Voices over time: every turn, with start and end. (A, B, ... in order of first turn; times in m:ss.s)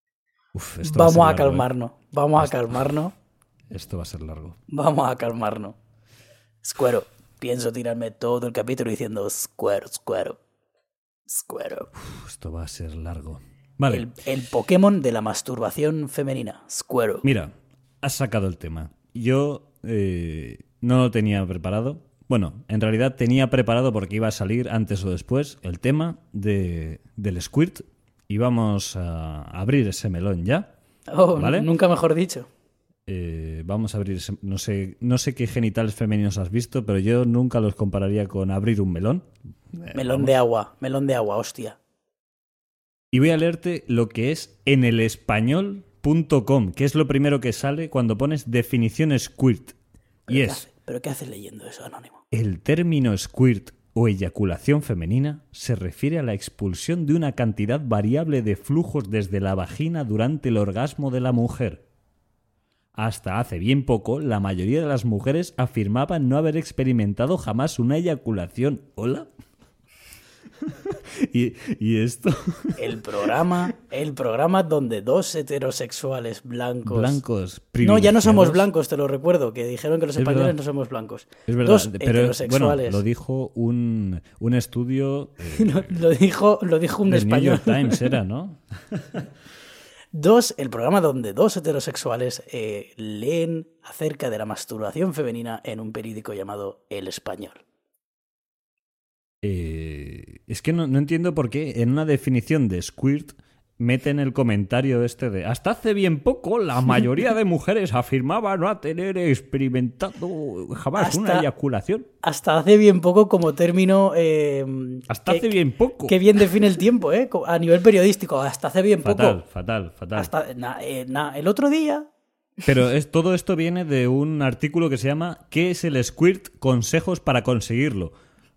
0:00.5-0:01.7 A
0:00.8-0:03.1 B
0:02.4-0:02.8 A
0:03.7-0:04.6 A
0:04.7-0:05.8 B
0:06.6-0:10.4 B
0:11.3-0:11.9 B
0:12.0-0:14.1 A
0:13.9-0:17.2 B
0:17.2-0:30.7 A
0:31.1-0:32.5 B
0:31.3-0:31.7 A
0:33.1-0:40.4 A
0:39.9-0:41.8 B
0:43.1-0:49.7 A
0:50.3-0:50.6 A
0:50.3-0:52.2 B
0:52.3-1:01.8 A
1:03.0-1:09.3 A
1:10.7-1:12.8 A
1:12.8-1:17.2 B
1:16.8-1:18.7 A
1:17.8-1:23.0 B
1:20.2-1:20.5 A
1:21.5-1:26.0 A
1:25.5-1:28.1 B
1:27.1-1:29.2 A
1:30.1-1:37.6 B
1:39.4-1:52.1 A
1:51.0-1:51.5 B
1:52.2-1:55.5 B
1:55.1-1:56.2 A
1:56.0-1:59.4 B
1:59.0-2:00.3 A
2:00.1-2:02.1 B
2:02.6-2:08.1 A